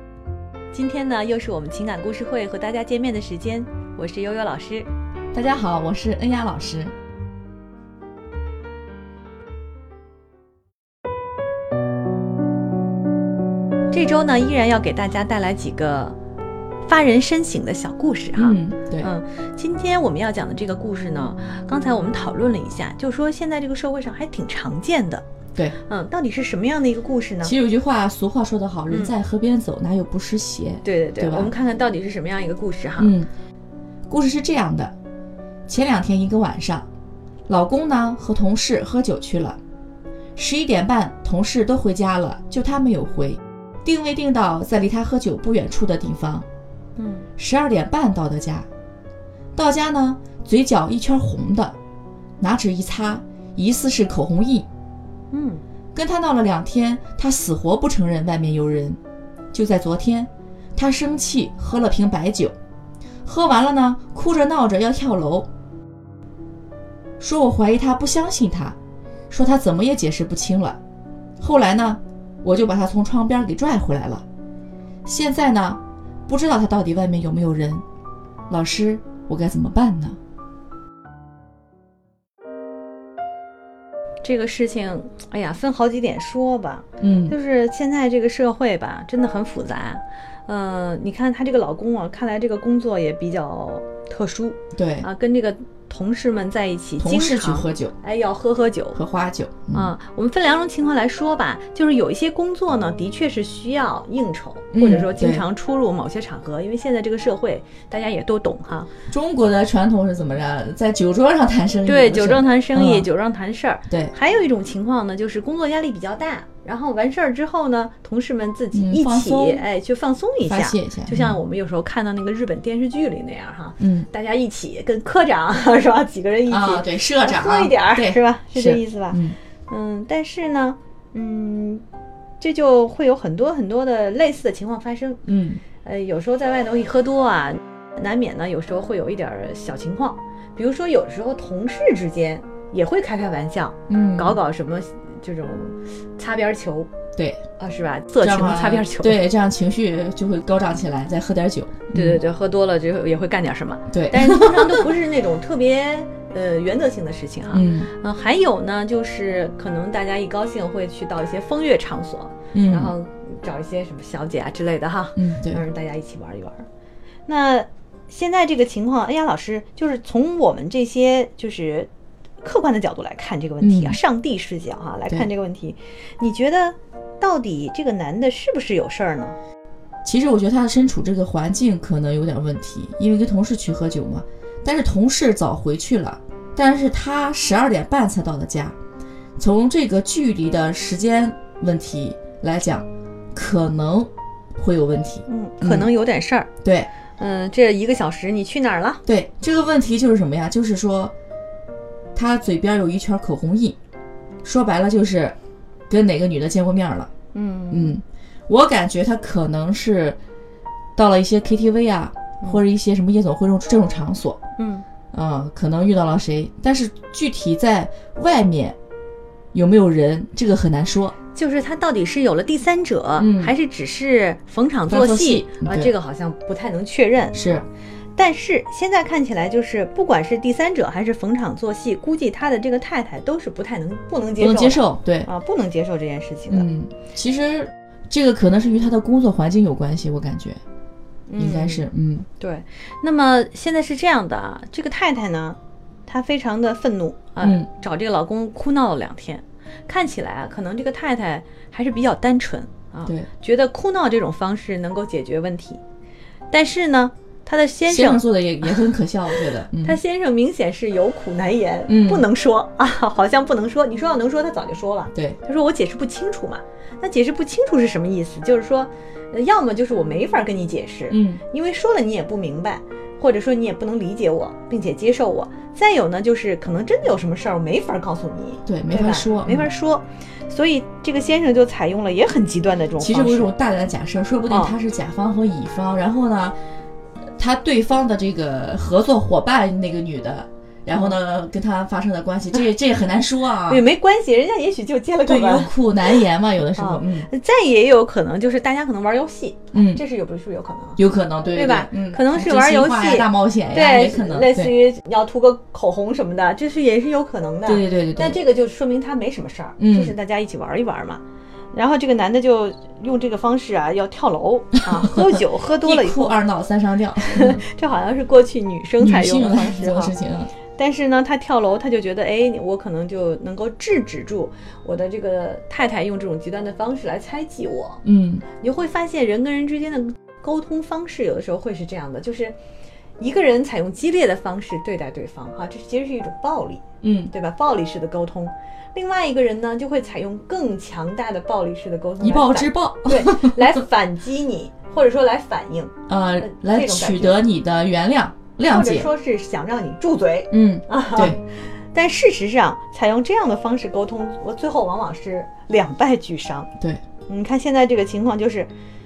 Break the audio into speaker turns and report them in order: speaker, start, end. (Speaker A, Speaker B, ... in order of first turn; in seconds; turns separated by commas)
Speaker A: 0.7-4.9, Speaker B: 5.3-6.9, Speaker A: 13.9-16.1, Speaker A: 16.9-25.2, Speaker B: 18.4-19.1, Speaker A: 25.9-27.5, Speaker B: 27.4-31.5, Speaker A: 30.8-33.2, Speaker B: 33.0-33.3, Speaker B: 34.1-34.9, Speaker B: 35.7-36.9, Speaker B: 37.5-39.6, Speaker B: 40.4-46.5, Speaker A: 47.0-47.3, Speaker B: 47.4-48.7, Speaker B: 49.5-51.8, Speaker B: 52.4-54.7, Speaker A: 55.3-55.6, Speaker B: 55.9-59.0, Speaker B: 59.5-62.5, Speaker B: 63.2-65.5, Speaker B: 67.2-68.8, Speaker B: 69.3-70.8, Speaker B: 71.4-74.2, Speaker B: 75.0-77.8, Speaker B: 78.5-80.2, Speaker A: 84.2-99.0, Speaker B: 87.0-87.4, Speaker B: 94.8-95.1, Speaker B: 97.0-97.9, Speaker B: 99.0-99.9, Speaker A: 99.7-108.9, Speaker B: 104.7-105.5, Speaker B: 109.1-113.1, Speaker A: 111.9-131.8, Speaker B: 118.7-119.6, Speaker B: 120.5-121.4, Speaker B: 123.8-124.1, Speaker B: 126.5-129.4, Speaker A: 132.4-135.2, Speaker B: 135.2-135.6, Speaker A: 135.8-146.9, Speaker B: 143.9-144.4, Speaker B: 147.2-147.4, Speaker A: 147.6-149.2, Speaker B: 148.2-152.2, Speaker A: 151.9-166.7, Speaker B: 153.9-154.7, Speaker B: 157.5-157.9, Speaker B: 162.5-162.9, Speaker B: 165.2-165.6, Speaker A: 167.3-171.9, Speaker A: 172.4-179.4, Speaker B: 173.6-174.0, Speaker B: 180.1-188.8, Speaker B: 189.4-195.9, Speaker A: 195.3-196.5, Speaker B: 196.6-196.9, Speaker A: 197.2-199.0, Speaker B: 199.1-201.1, Speaker B: 202.2-203.8, Speaker B: 204.4-205.4, Speaker B: 205.9-207.1, Speaker A: 207.3-208.0, Speaker B: 207.7-210.2, Speaker B: 211.0-214.4, Speaker A: 214.6-214.8, Speaker B: 215.1-218.8, Speaker B: 219.5-221.2, Speaker A: 221.3-236.7, Speaker B: 223.2-223.5, Speaker B: 224.9-225.9, Speaker B: 227.3-227.7, Speaker B: 234.4-235.3, Speaker B: 236.5-240.6, Speaker A: 241.3-241.9, Speaker B: 241.4-242.3, Speaker A: 242.4-255.8, Speaker B: 247.4-247.7, Speaker A: 256.5-283.5, Speaker B: 257.9-260.0, Speaker B: 261.9-262.3, Speaker B: 271.1-271.4, Speaker B: 278.7-279.7, Speaker B: 283.0-286.6, Speaker A: 284.5-284.8, Speaker B: 287.4-293.8, Speaker A: 290.9-291.2, Speaker A: 293.7-296.2, Speaker B: 295.3-297.3, Speaker A: 296.8-301.0, Speaker B: 299.7-300.0, Speaker B: 301.0-304.7, Speaker A: 301.5-311.2, Speaker B: 307.7-308.4, Speaker B: 309.8-310.1, Speaker A: 311.7-316.4, Speaker B: 315.0-317.6, Speaker A: 317.2-320.1, Speaker B: 319.0-320.5, Speaker A: 320.8-328.0, Speaker B: 328.0-328.4, Speaker A: 328.6-332.6, Speaker A: 333.2-347.4, Speaker B: 337.0-337.3, Speaker B: 342.2-343.8, Speaker B: 346.1-349.1, Speaker A: 348.7-356.7, Speaker B: 350.5-351.4, Speaker A: 357.3-358.7